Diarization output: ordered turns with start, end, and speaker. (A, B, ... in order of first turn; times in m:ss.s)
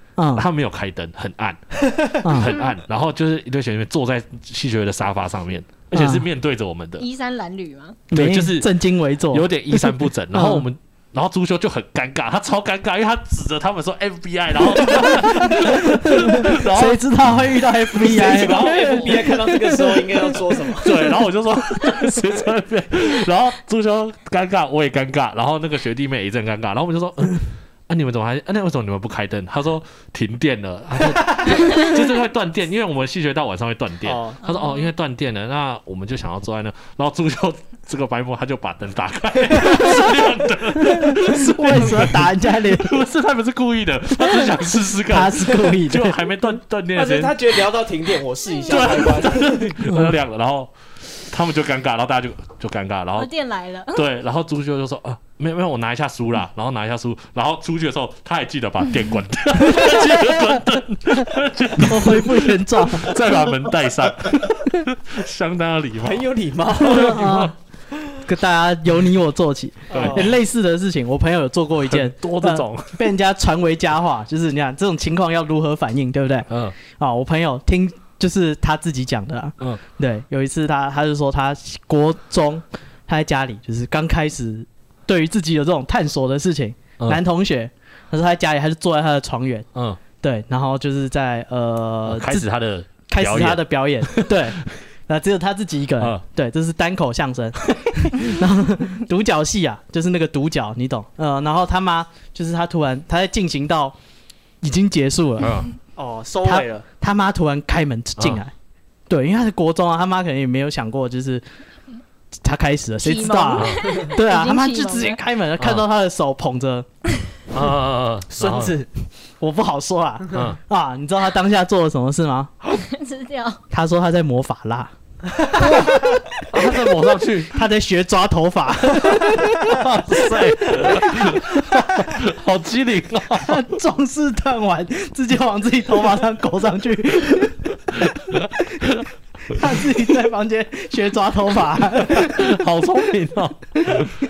0:00.2-0:00.5 A
0:00.3-0:07.0 B
0:02.2-0:02.5 A
0:05.9-0:06.3 A
0:07.0-0:08.0 C
0:08.1-0:10.7 A
0:08.1-0:19.4 B
0:14.8-0:20.1 A
0:18.0-0:21.0 D
0:20.8-0:47.6 B
0:34.0-0:34.4 D
0:34.4-0:34.9 C
0:39.6-0:40.0 A
0:40.8-0:43.0 A
0:44.2-0:44.5 A
0:45.1-0:46.2 A
0:46.9-0:49.8 D
0:48.5-0:48.9 C
0:48.6-0:53.3 B
0:49.8-0:50.2 A
0:53.2-0:54.1 C
0:53.9-1:07.5 B
0:59.6-1:03.4 A
1:06.0-1:07.3 D
1:06.8-1:07.5 A
1:08.2-1:29.7 A
1:09.9-1:10.3 B
1:09.9-1:10.3 D
1:11.9-1:13.0 B
1:16.5-1:16.8 B
1:29.7-1:30.0 B
1:30.2-1:32.4 A
1:32.1-1:34.6 B
1:33.1-1:44.0 A
1:44.6-1:45.6 A
1:45.4-1:45.7 B
1:46.0-1:46.8 D
1:46.4-1:48.5 A
1:49.1-1:51.4 A
1:52.4-1:56.9 A
1:53.0-1:55.2 C
1:55.6-1:55.8 B
1:57.5-1:58.8 B
1:58.3-1:58.9 D
1:59.4-2:02.5 A
2:00.3-2:00.6 B
2:02.7-2:03.6 C
2:03.7-2:04.9 A
2:05.6-2:06.4 A
2:05.6-2:05.9 B
2:06.5-2:07.6 B
2:07.5-2:12.1 A
2:09.6-2:13.6 B
2:13.3-2:17.8 A
2:18.1-2:18.4 B
2:19.5-2:22.6 A
2:22.1-2:24.1 B